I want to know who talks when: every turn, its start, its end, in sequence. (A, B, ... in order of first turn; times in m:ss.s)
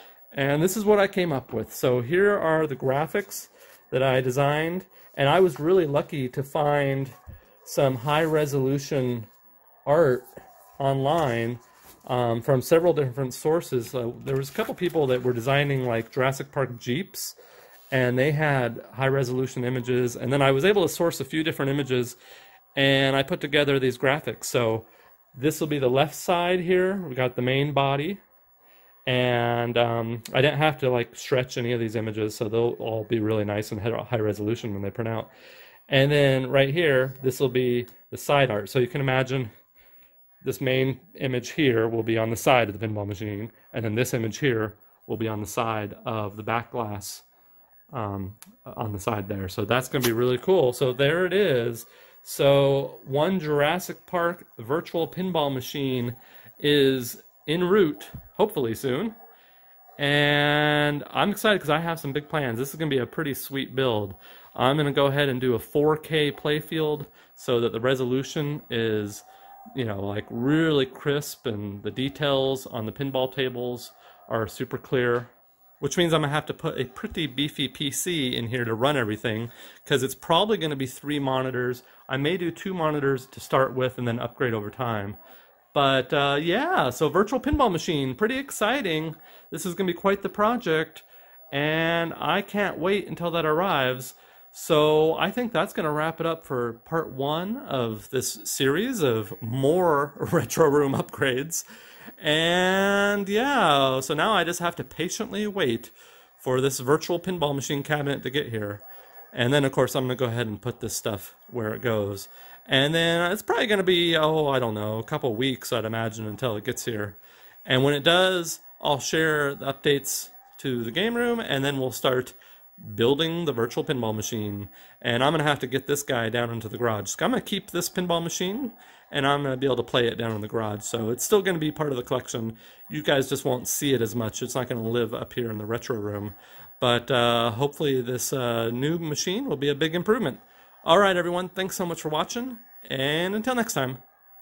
0:00.3-0:09.3 A
0:09.9-0:10.3 A
0:10.8-0:17.4 A
0:17.9-0:22.2 A
0:22.8-0:28.2 A
0:29.1-0:35.3 A
0:35.9-0:39.5 A
0:40.4-0:47.3 A
0:47.9-0:59.2 A
1:00.0-1:25.2 A
1:25.7-1:41.6 A
1:42.2-2:24.0 A